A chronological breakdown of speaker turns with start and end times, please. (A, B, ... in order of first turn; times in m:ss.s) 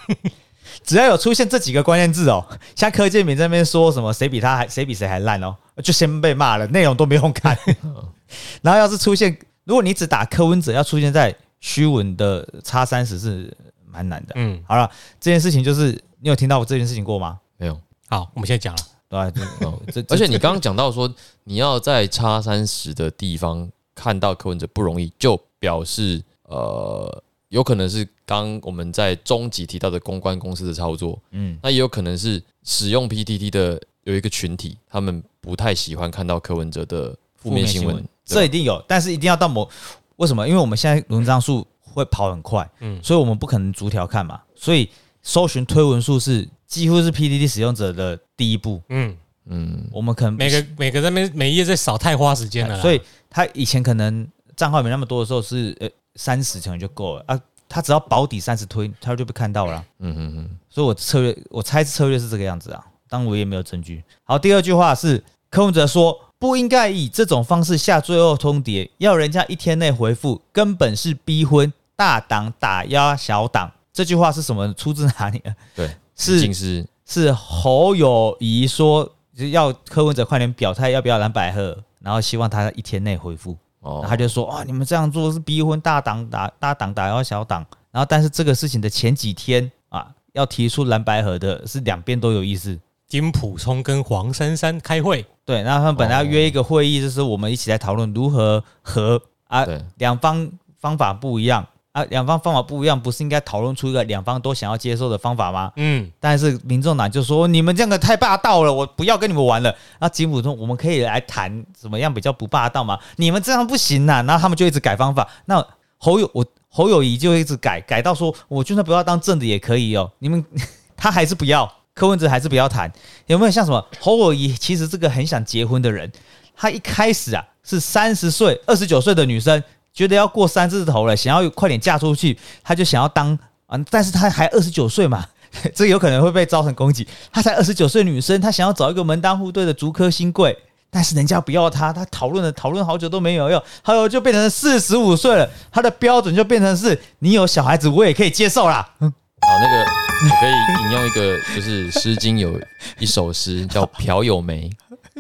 0:00.8-0:07.8 A
0:07.8-0:08.1 B
0:08.3-0:17.4 A
0:14.3-0:14.6 C
0:18.1-0:18.9 C
0:19.1-0:20.6 A
0:19.6-0:38.5 B
0:31.3-0:31.6 A
0:37.4-0:48.8 A
0:48.9-0:49.2 C
0:49.5-0:49.9 B
0:49.9-0:50.6 A
0:50.4-0:53.0 C
0:52.6-0:59.8 A
1:00.0-1:00.6 B
1:00.7-1:15.6 A
1:15.8-1:16.9 B
1:16.1-1:16.5 A
1:17.1-1:32.8 A
1:23.8-1:24.2 B
1:33.1-1:35.3 C
1:35.4-2:29.1 A
1:36.0-1:36.5 B
1:45.8-1:46.1 C
2:29.4-2:34.8 B